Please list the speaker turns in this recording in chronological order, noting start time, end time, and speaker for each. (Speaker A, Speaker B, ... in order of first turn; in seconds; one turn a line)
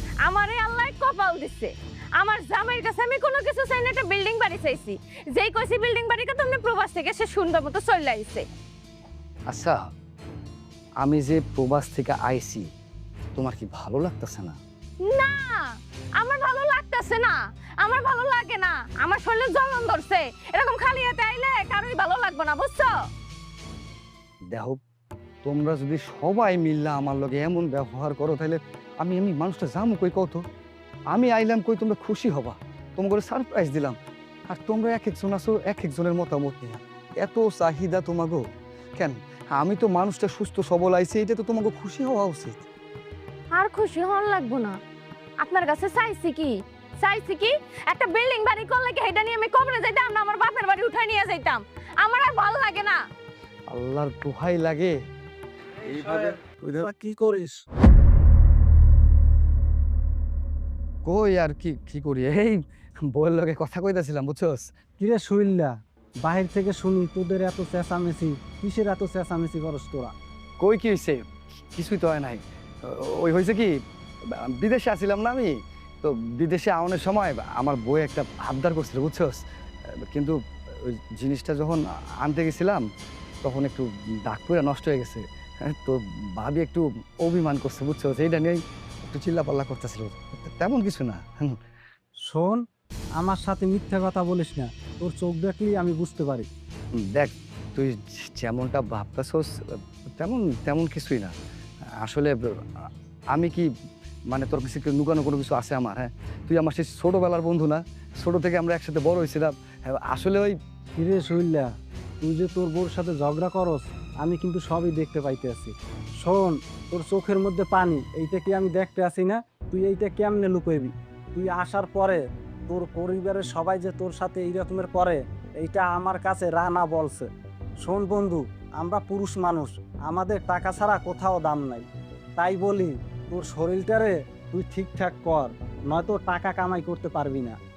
Speaker A: 0.2-8.4
Speaker B: 9.5-9.8
Speaker B: 11.0-12.7
Speaker B: 13.3-14.6
Speaker A: 15.1-15.6
Speaker A: 16.2-22.9
Speaker B: 24.5-24.8
Speaker B: 25.4-30.4
Speaker B: 31.1-34.0
Speaker B: 34.5-38.4
Speaker B: 39.0-42.6
Speaker A: 43.5-44.8
Speaker A: 45.4-46.5
Speaker A: 47.0-53.0
Speaker B: 53.7-55.0
Speaker C: 56.7-57.6
Speaker B: 61.0-62.6
Speaker B: 63.1-64.7
Speaker C: 65.0-70.1
Speaker B: 70.6-71.2
Speaker B: 71.7-73.7
Speaker B: 74.4-79.4
Speaker B: 80.1-82.8
Speaker B: 83.4-91.5
Speaker C: 92.3-92.6
Speaker C: 93.2-96.5
Speaker B: 97.2-99.5
Speaker B: 100.2-101.3
Speaker B: 102.0-102.3
Speaker B: 103.3-103.7
Speaker B: 104.3-110.5
Speaker C: 111.0-111.7
Speaker C: 112.2-127.3
Speaker C: 127.8-131.9
Speaker C: 132.4-137.6